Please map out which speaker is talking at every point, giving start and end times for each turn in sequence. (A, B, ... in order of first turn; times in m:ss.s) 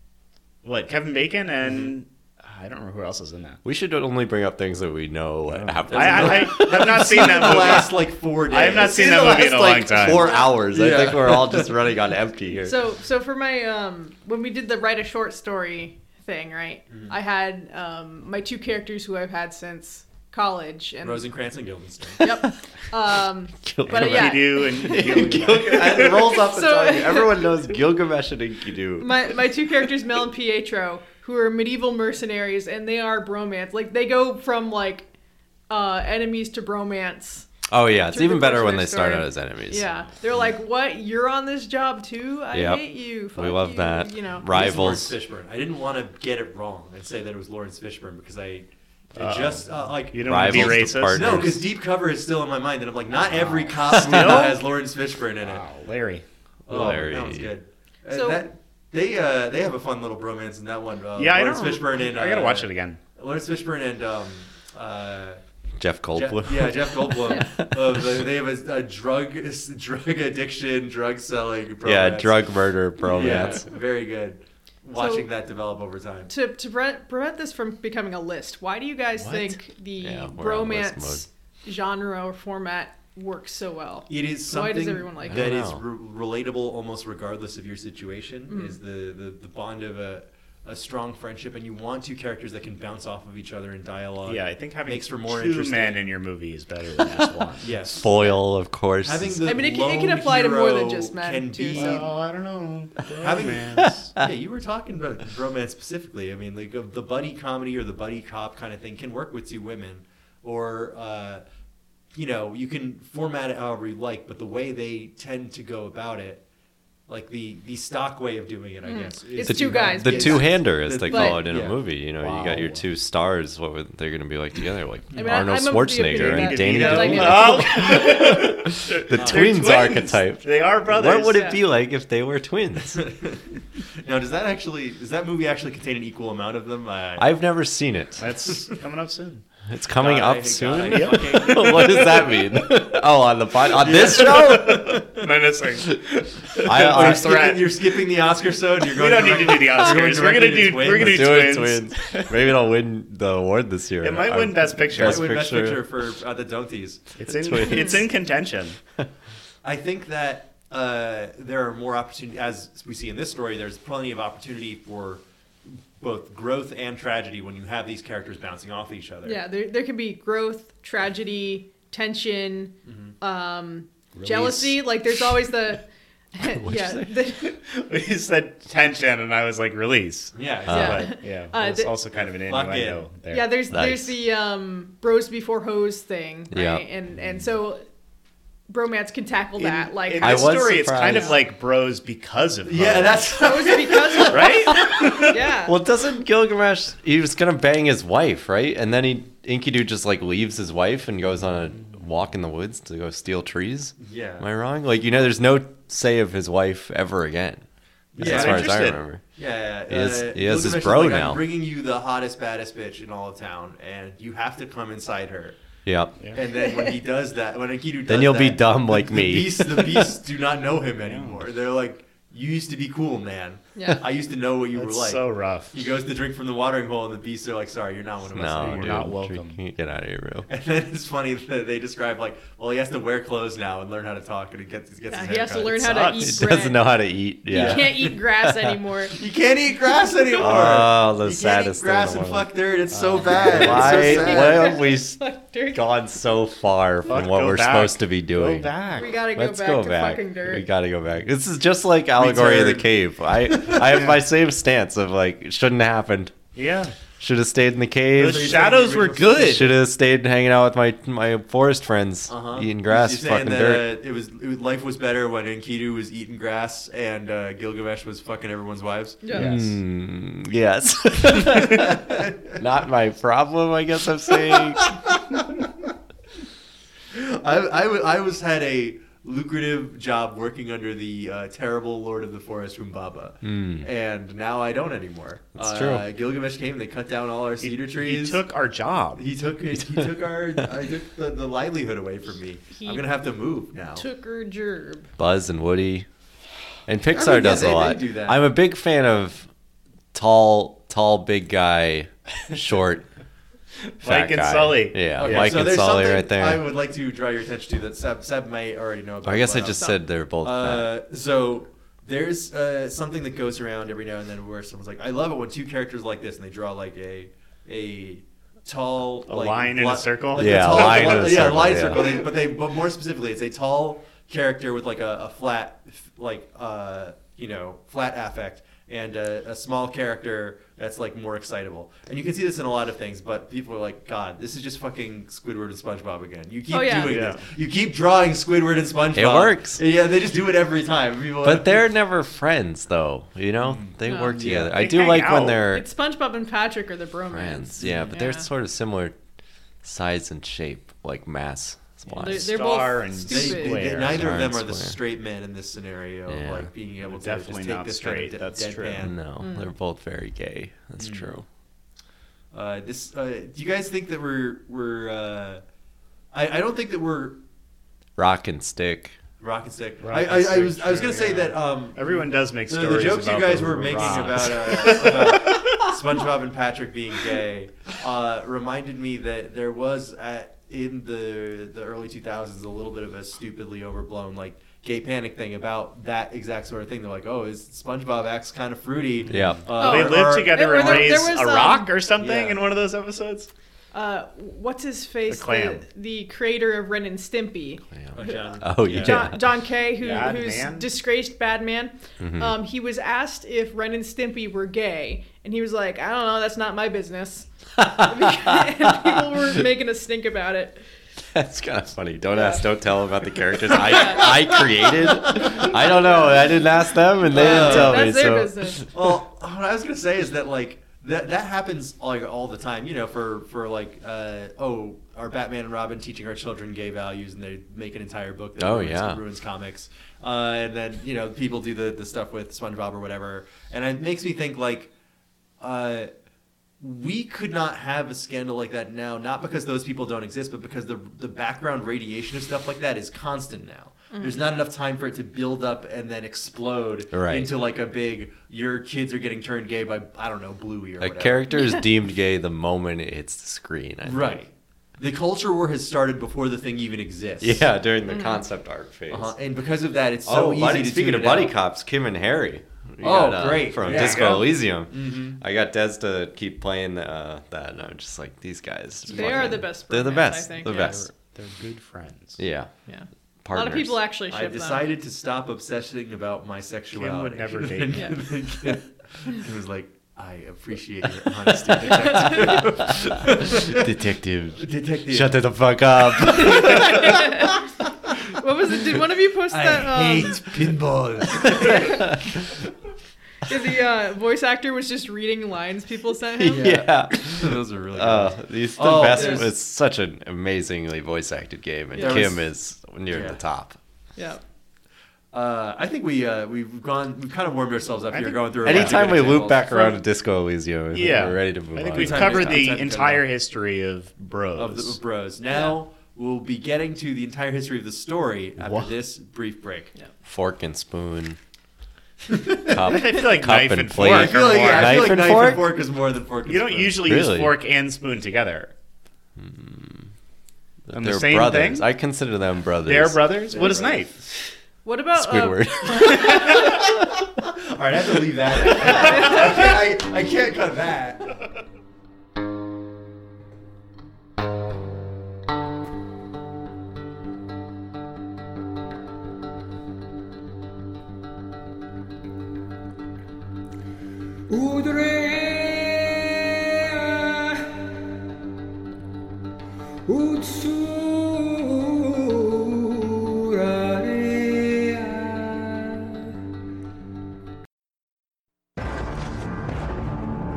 0:00.6-0:03.6 A
0:03.6-0:07.9 B
0:05.6-0:07.9 A
0:05.8-0:09.8 C
0:08.5-0:10.3 A
0:08.8-0:12.8 B
0:10.1-0:10.5 D
0:10.7-0:11.7 C
0:12.6-0:21.3 D
0:21.0-0:22.2 C
0:22.2-0:27.5 D
0:22.2-0:22.5 B
0:23.6-0:29.3 B
0:23.9-0:26.2 A
0:29.0-0:35.1 D
0:35.7-0:37.5 D
0:37.7-0:39.9 B
0:38.1-0:44.4 D
0:42.5-0:45.1 B
0:44.4-0:55.6 C
0:49.2-0:51.4 A
0:50.2-0:51.6 B
0:53.2-0:54.6 A
0:53.9-0:54.5 B
0:55.4-0:56.2 A
0:56.7-1:05.4 C
0:56.7-0:57.5 B
0:58.1-0:58.4 D
1:01.2-1:03.0 A
1:05.8-1:08.2 B
1:06.1-1:12.4 C
1:11.8-1:13.7 B
1:13.0-1:16.3 C
1:14.9-1:15.3 D
1:16.3-1:25.5 D
1:19.2-1:21.2 B
1:24.1-1:36.0 C
1:25.3-1:25.8 B
1:28.5-1:28.8 D
1:34.2-1:37.7 A
1:37.6-1:38.3 C
1:37.9-1:39.5 B
1:39.0-1:42.1 C
1:39.4-1:42.0 D
1:41.7-1:44.1 A
1:43.1-1:51.4 C
1:43.9-1:44.3 B
1:52.1-1:56.4 C
1:57.1-2:01.8 C
1:58.8-2:01.4 D
1:59.4-2:13.1 B
2:02.2-2:02.8 A
2:05.1-2:08.0 D
2:06.1-2:11.5 A
2:09.1-2:09.7 C
2:11.3-2:11.6 D
2:12.9-2:13.4 C
2:14.0-2:17.3 C
2:17.2-2:18.3 B
2:18.2-2:19.4 A
2:19.7-2:25.1 B
2:20.0-2:22.4 C
2:20.8-2:21.9 A
2:23.8-2:25.1 C
2:23.8-2:27.8 A
2:26.6-2:27.6 B
2:26.7-2:31.5 C
2:28.8-2:32.3 A
2:30.9-2:35.8 B
2:34.0-2:35.3 A
2:34.9-2:37.1 C
2:37.2-2:38.8 A
2:37.4-2:38.0 B
2:37.6-2:38.0 D
2:39.6-2:49.4 C
2:49.2-2:57.5 D
2:52.8-2:53.1 C
2:54.1-2:54.8 A
2:56.4-2:57.1 B
2:57.4-3:03.6 A
3:00.3-3:01.0 C
3:00.7-3:01.0 B
3:00.7-3:01.9 D
3:02.1-3:03.1 C
3:03.3-3:07.8 D
3:03.7-3:04.2 B
3:06.5-3:06.8 B
3:08.7-3:11.3 D
3:09.6-3:13.3 A
3:10.2-3:11.4 B
3:12.7-3:14.6 C
3:13.4-3:15.7 D
3:14.3-3:15.4 A
3:14.8-3:27.6 B
3:24.0-3:24.4 C
3:28.1-3:28.8 C
3:28.2-3:29.0 A
3:28.2-3:29.2 B
3:29.4-3:35.6 C
3:29.9-3:31.4 B
3:35.8-3:36.2 B
3:36.3-3:49.0 C
3:38.1-3:40.1 B
3:41.0-3:41.4 A
3:43.8-3:44.0 D
3:44.7-3:45.8 A
3:48.3-3:50.5 B
3:48.6-3:49.6 A
3:50.5-3:56.3 C
3:55.1-3:56.9 D
3:56.2-3:58.7 B
3:57.5-3:59.2 D
3:57.5-3:58.1 C
3:59.1-4:04.8 C
4:00.4-4:02.5 B
4:02.9-4:04.1 A
4:03.2-4:08.7 B
4:03.8-4:05.8 D
4:07.1-4:09.2 A
4:09.0-4:10.6 D
4:09.3-4:16.3 B
4:12.2-4:12.9 C
4:13.4-4:14.1 C
4:16.5-4:16.9 A
4:17.2-4:18.7 B
4:18.1-4:19.7 A
4:18.2-4:19.6 C
4:19.3-4:23.9 B
4:22.3-4:29.2 C
4:29.2-4:29.5 D
4:29.3-4:29.7 A
4:29.3-4:35.0 B
4:31.7-4:32.6 C
4:34.5-4:35.4 C
4:37.1-4:48.4 C
4:43.4-4:43.9 B
4:45.6-4:46.0 B
4:47.6-4:49.3 A
4:49.1-4:54.0 C
4:52.8-4:53.0 D
4:54.0-4:55.1 D
4:55.2-4:56.1 B
4:56.9-4:59.5 B
4:57.1-4:58.4 C
5:00.1-5:03.0 B
5:04.0-5:05.6 A
5:04.0-5:06.6 B
5:05.2-5:41.9 C
5:09.2-5:10.9 B
5:19.3-5:21.5 A
5:20.3-5:22.2 B
5:36.7-5:37.1 D
5:37.0-5:37.4 A
5:39.1-5:39.8 B
5:41.4-5:45.8 B
5:43.6-5:44.8 C
5:44.0-5:44.4 D
5:44.4-5:45.6 A
5:45.6-5:48.5 D
5:47.3-5:49.1 B
5:47.8-5:48.1 C
5:49.8-5:52.6 B
5:52.1-5:54.3 A
5:52.2-5:53.8 D
5:53.2-5:59.1 C
5:54.0-5:55.0 B
5:56.3-5:56.7 B
5:57.0-5:59.0 A
5:59.0-6:01.4 B
5:59.4-5:59.7 D
6:01.0-6:01.4 C
6:02.5-6:05.6 C
6:06.3-6:07.4 C
6:08.2-6:09.2 B
6:09.4-6:31.3 C
6:10.0-6:15.8 A
6:29.3-6:33.5 A
6:29.3-6:29.7 B
6:29.8-6:31.9 D
6:32.2-6:32.6 C
6:33.9-6:50.8 D
6:35.3-6:35.8 A
6:37.9-6:39.4 B
6:38.1-6:39.3 C
6:40.0-6:40.9 A
6:42.2-6:42.6 B
6:47.8-6:49.5 B
6:51.3-6:58.9 B
6:52.3-6:52.6 D
6:53.7-6:54.6 D
6:55.2-6:55.8 C
6:55.6-6:56.6 D
6:57.2-6:58.9 D
6:57.3-6:58.1 C
6:58.9-7:14.9 C
7:08.6-7:09.2 B
7:15.6-7:16.1 C
7:16.8-7:31.5 C
7:24.1-7:24.4 D
7:27.1-7:27.5 B
7:31.0-7:34.4 B
7:34.0-7:37.6 C
7:37.4-7:39.3 B
7:38.1-7:38.4 D
7:39.1-7:41.6 C
7:40.2-7:51.1 B
7:43.0-7:45.4 C
7:43.8-7:44.4 A
7:49.1-7:51.0 D
7:50.6-7:52.4 A
7:52.4-7:52.7 B
7:52.9-7:54.9 D
7:53.4-7:54.0 B
7:54.3-8:03.9 C
7:56.9-7:58.2 A
8:02.8-8:07.4 B
8:04.6-8:05.4 C
8:06.1-8:07.1 C
8:06.3-8:07.6 D
8:08.3-8:10.5 D
8:09.5-8:12.0 C
8:11.5-8:12.0 D
8:11.7-8:12.1 B
8:13.4-8:16.8 D
8:16.4-8:23.8 B
8:16.5-8:19.5 C
8:19.1-8:19.4 D
8:21.9-8:22.3 D
8:22.0-8:22.4 C
8:23.1-8:23.4 C
8:25.3-8:29.9 C
8:28.1-8:29.3 A
8:28.6-8:32.6 B
8:30.9-8:35.0 A
8:31.9-8:33.2 C
8:34.5-8:39.9 C
8:38.6-8:38.9 A
8:40.2-8:41.4 B
8:42.3-8:42.9 C
8:42.6-8:45.7 B
8:42.8-8:45.3 A
8:44.0-8:47.1 C
8:46.4-8:48.7 A
8:47.0-8:47.5 B
8:49.4-8:50.1 B
8:50.9-8:53.3 B
8:50.9-8:51.9 A
8:52.8-8:54.2 A
8:53.5-8:54.0 C
8:54.8-8:56.4 D
8:55.2-8:56.9 B
8:56.1-8:56.7 C
8:57.4-9:01.3 C
8:59.1-8:59.4 D
9:14.5-9:17.7 E
9:20.0-9:26.1 E